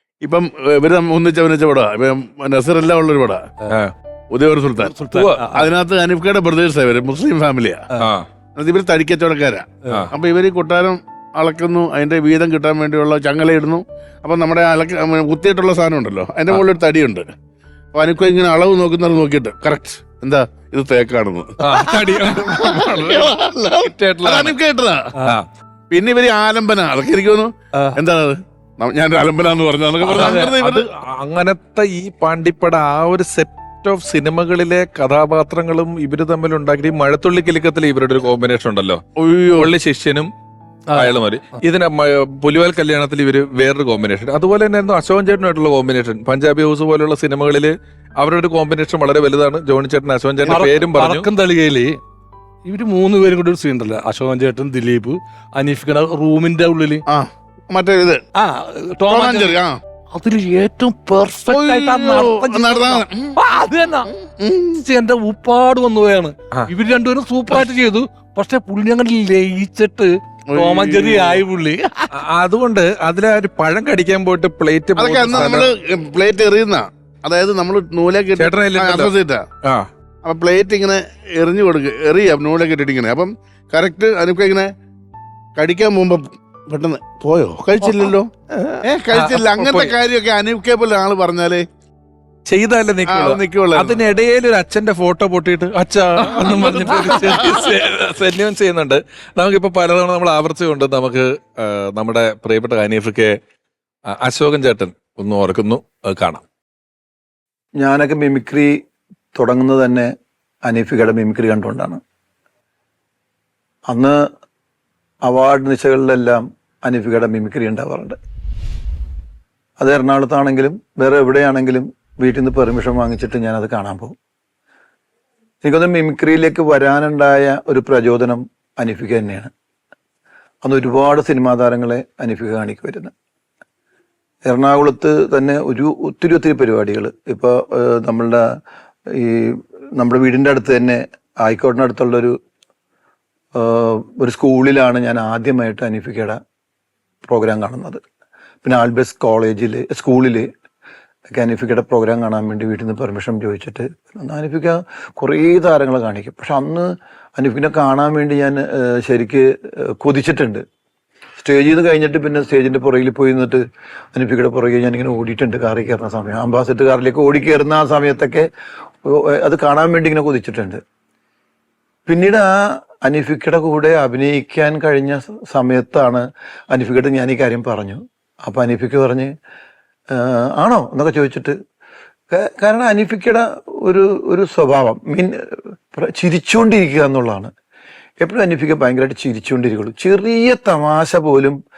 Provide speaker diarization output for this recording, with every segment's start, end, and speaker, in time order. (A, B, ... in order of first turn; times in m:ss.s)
0:00.2-0:03.4 A
0:04.3-0:07.9 A
0:04.9-0:05.7 B
0:05.1-0:05.4 C
0:08.0-0:08.2 C
0:08.5-0:17.3 A
0:17.9-0:21.6 A
0:21.6-0:24.6 C
0:22.2-0:25.1 A
0:25.9-0:30.8 A
0:30.0-0:39.0 C
0:30.2-0:30.5 B
0:39.2-0:39.7 A
0:39.6-0:40.3 C
0:40.9-0:51.3 C
0:50.4-0:52.0 B
0:52.6-0:57.0 B
0:57.1-0:58.2 A
0:58.4-0:59.6 B
0:59.1-0:59.8 A
1:00.1-1:04.1 B
1:01.5-1:03.4 A
1:04.2-1:04.8 A
1:04.7-1:12.1 B
1:10.5-1:11.4 A
1:12.1-1:15.7 C
1:15.0-1:19.4 A
1:18.4-1:19.9 C
1:20.2-1:24.7 A
1:25.6-1:28.3 A
1:28.6-1:29.9 C
1:28.8-1:31.6 A
1:32.4-1:43.3 C
1:33.1-1:34.0 A
1:36.2-1:37.5 A
1:44.1-1:46.4 C
1:47.8-1:48.7 D
1:49.3-1:50.1 D
1:50.6-1:52.0 D
1:53.9-1:54.2 D
1:55.2-1:58.2 D
1:59.8-2:04.2 D
2:05.6-2:09.5 D
2:10.6-2:13.1 D
2:14.4-2:18.4 D
2:19.1-2:22.3 D
2:23.6-2:26.4 D
2:27.2-2:28.0 D
2:28.6-2:30.5 D
2:31.3-2:40.6 D
2:41.4-2:48.5 D
2:49.0-2:50.8 D
2:52.1-2:59.3 D
3:00.1-3:01.5 D
3:02.3-3:07.5 D
3:08.2-3:11.6 D